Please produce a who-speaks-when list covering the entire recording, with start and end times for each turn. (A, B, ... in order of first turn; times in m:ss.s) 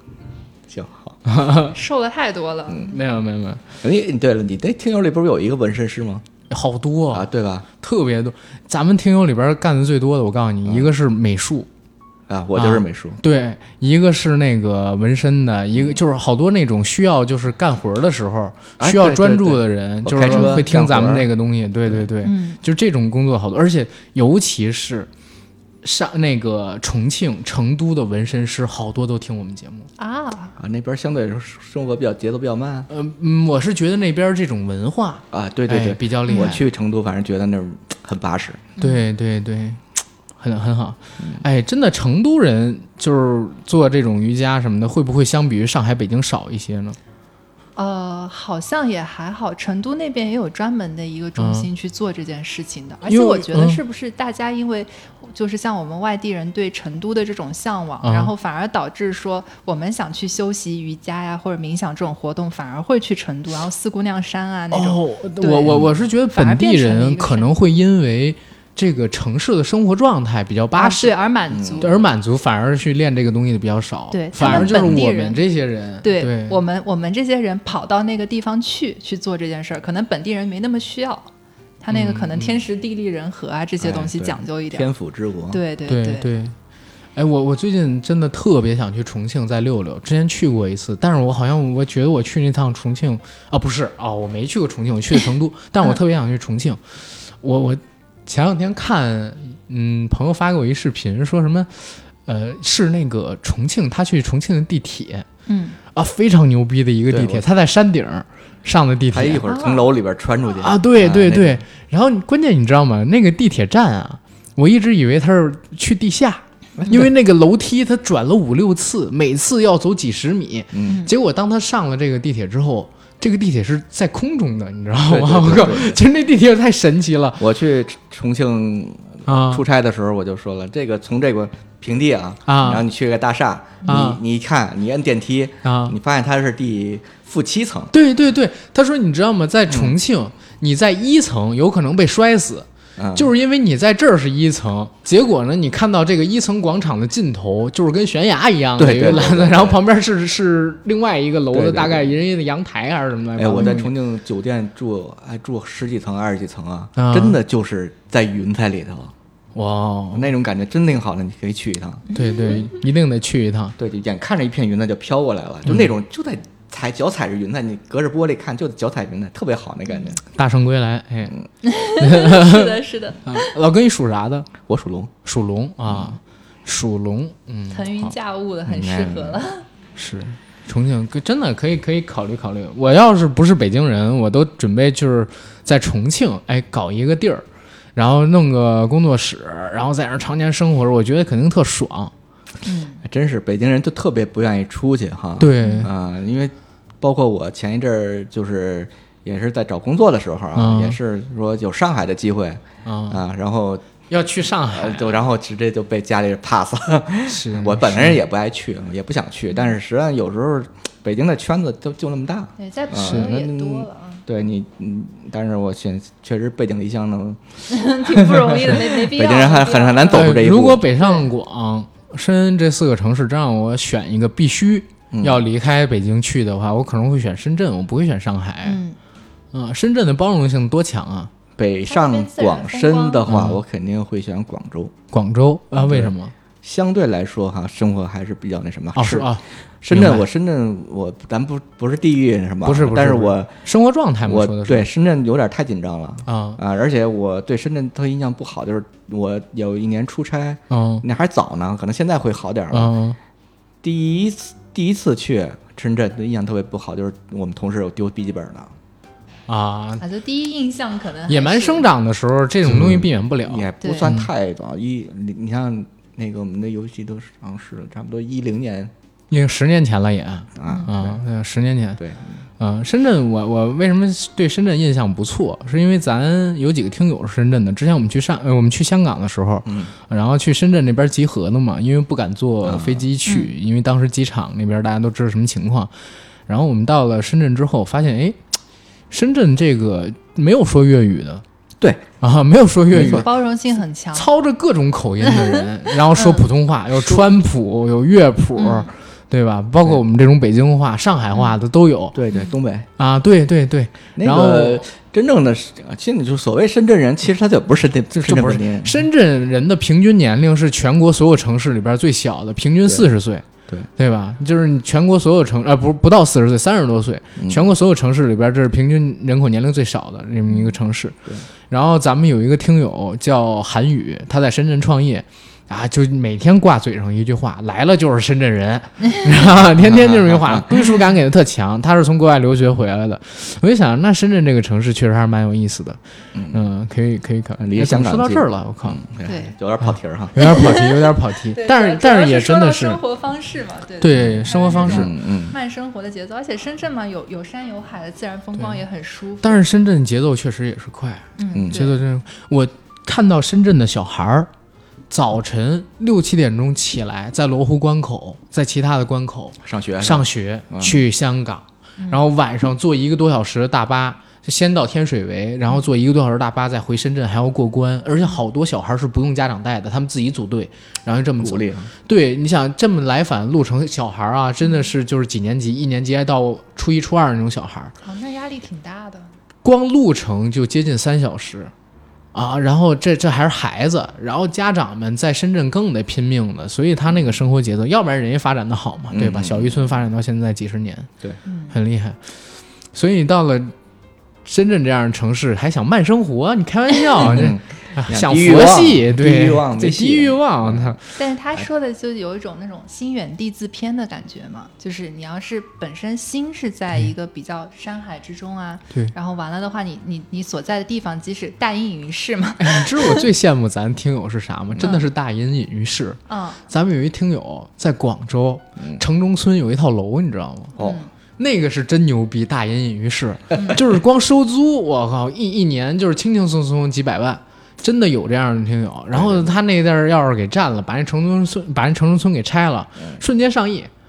0:00.7-0:01.2 A
0:01.2-0:01.7 B
0:01.7-0:03.0 C
0:02.8-0:03.6 B
0:03.8-0:06.2 A
0:06.5-0:07.3 B
0:07.1-0:07.6 A
0:07.8-0:11.7 B
0:10.6-0:10.9 A
0:12.3-0:13.2 A
0:12.5-0:25.1 B
0:18.8-0:21.3 A
0:20.3-0:20.6 C
0:22.2-0:22.6 C
0:25.8-0:29.9 B
0:30.0-0:30.5 C
0:30.6-0:32.9 A
0:32.9-0:36.6 B
0:35.3-0:38.6 A
0:36.3-0:36.6 C
0:38.8-0:39.0 C
0:38.8-0:47.0 B
0:41.2-0:41.4 A
0:47.8-1:07.5 C
0:51.4-0:51.7 B
0:53.0-0:53.8 B
0:58.0-0:58.3 B
1:04.7-1:11.1 B
1:10.7-1:12.0 C
1:11.5-1:11.9 A
1:11.8-1:16.6 B
1:14.1-1:15.4 C
1:14.4-1:15.0 A
1:16.0-1:21.3 C
1:21.8-1:24.9 C
1:21.9-1:22.5 B
1:23.8-1:25.6 A
1:25.5-1:26.3 C
1:25.9-1:26.6 B
1:27.1-1:45.3 B
1:45.5-1:45.8 C
1:45.9-1:49.4 B
1:47.1-1:47.4 A
1:49.1-1:51.6 A
1:49.4-1:49.9 C
1:50.6-2:07.4 B
1:56.8-1:57.1 A
2:00.7-2:01.0 A
2:00.9-2:01.1 C
2:05.1-2:06.0 A
2:07.4-2:17.9 A
2:09.3-2:09.6 B
2:12.5-2:12.8 B
2:13.9-2:14.2 B
2:15.6-2:16.0 B
2:17.9-2:33.9 B
2:19.7-2:20.0 A
2:23.0-2:23.3 A
2:28.8-2:29.8 A
2:31.5-2:32.1 A
2:33.4-2:39.1 A
2:37.0-2:37.4 B
2:39.5-2:40.3 B
2:40.1-2:42.0 A
2:42.1-2:42.7 C
2:42.1-2:43.7 B
2:43.8-2:50.2 A
2:45.6-2:45.9 B
2:50.2-2:51.3 B
2:51.6-2:53.5 C
2:52.0-2:54.5 B
2:54.7-2:55.1 A
2:55.2-2:58.1 B
2:55.9-2:56.2 A
2:57.7-2:59.6 C
2:58.7-2:59.4 A
3:00.0-3:12.1 B
3:12.6-3:13.0 C
3:13.0-3:23.9 A
3:15.4-3:15.9 B
3:15.6-3:15.9 C
3:20.5-3:21.0 B
3:22.8-3:23.2 B
3:24.1-3:25.2 B
3:24.7-3:40.8 A
3:27.3-3:28.2 B
3:32.6-3:34.2 C
3:33.0-3:33.3 B
3:37.7-3:40.4 C
3:40.1-3:48.8 B
3:40.9-3:41.2 C
3:45.1-3:45.4 A
3:48.6-3:49.0 C
3:49.5-3:51.3 B
3:51.6-3:54.9 A
3:51.9-3:53.3 C
3:53.2-3:53.6 B
3:55.1-3:56.3 B
3:55.8-4:03.5 A
3:58.9-4:00.3 B
4:02.6-4:04.9 B
4:04.2-4:12.9 A
4:06.3-4:06.6 B
4:10.7-4:11.0 B
4:12.7-4:13.2 B
4:13.8-4:18.7 A
4:19.5-4:20.0 B
4:20.0-4:21.8 C
4:21.3-4:24.3 B
4:22.6-4:28.9 A
4:23.8-4:24.1 C
4:29.3-4:32.0 B
4:30.6-4:31.2 A
4:32.0-4:32.4 A
4:32.6-4:45.9 B
4:39.6-4:39.9 A
4:42.6-4:43.0 A
4:43.2-4:43.5 C
4:46.5-4:48.4 B
4:49.1-4:51.4 B
4:52.2-4:53.3 B
4:52.9-4:53.3 A
4:52.9-4:54.3 C
4:54.1-5:02.2 B
4:55.2-4:55.6 C
4:56.1-4:56.4 C
4:58.6-4:58.9 C
5:02.1-5:02.9 A
5:03.0-5:04.8 B
5:04.2-5:09.0 A
5:08.1-5:13.4 B
5:14.0-5:36.0 B
5:17.4-5:17.7 A
5:29.8-5:30.9 A
5:36.3-5:36.6 A
5:36.5-5:39.0 B
5:37.6-5:40.5 A
5:39.2-5:39.5 C
5:39.8-5:43.0 B
5:40.4-5:49.7 C
5:44.0-5:45.1 B
5:44.1-5:45.5 A
5:49.4-5:54.5 B
5:51.4-5:52.0 C
5:51.5-5:51.8 A
5:55.1-6:17.9 B
5:59.6-6:01.0 A
6:02.0-6:02.2 C
6:11.4-6:11.9 A
6:14.6-6:14.9 C
6:18.0-6:19.3 C
6:19.6-6:21.7 B
6:22.3-6:31.1 B
6:29.1-6:30.0 A
6:31.4-6:31.8 C
6:31.7-6:32.3 B
6:32.9-6:33.7 B
6:34.4-6:41.0 B
6:37.2-6:41.0 A
6:41.2-6:53.2 C
6:52.6-7:00.8 B
6:54.8-6:55.1 C
6:56.3-6:56.6 C
6:58.8-6:59.0 A
7:00.8-7:01.1 C
7:01.4-7:13.9 B
7:03.5-7:03.8 C
7:09.1-7:09.5 A